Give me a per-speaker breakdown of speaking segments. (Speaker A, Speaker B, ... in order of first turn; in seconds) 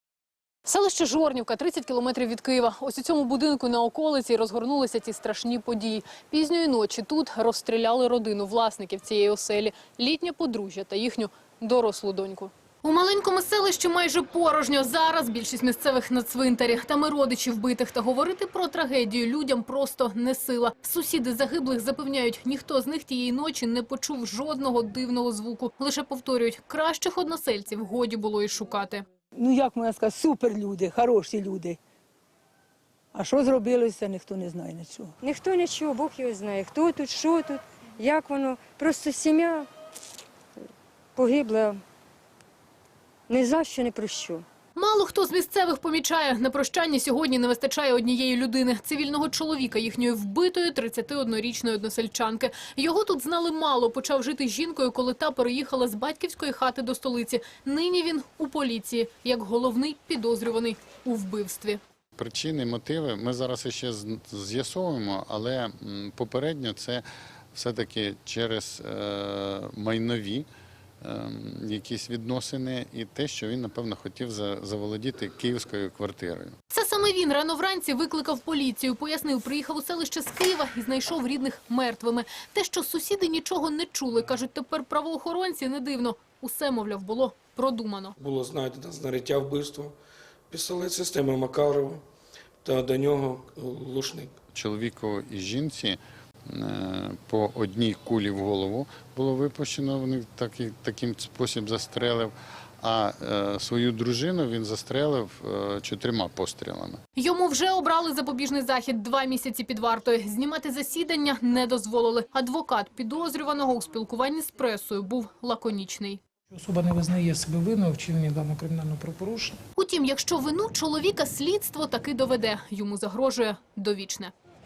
Speaker A: 0.7-29.0, 44.8-61.8, 76.7-88.2, 107.2-116.2, 119.8-124.3
Speaker B: 29.4-31.8, 33.1-35.2
Speaker C: 35.2-39.7, 41.2-41.8, 43.3-44.5
Speaker D: 62.2-70.5, 71.0-76.5, 94.5-107.0
Speaker E: 88.2-90.0, 90.5-92.0, 92.6-94.3
Speaker F: 116.5-119.6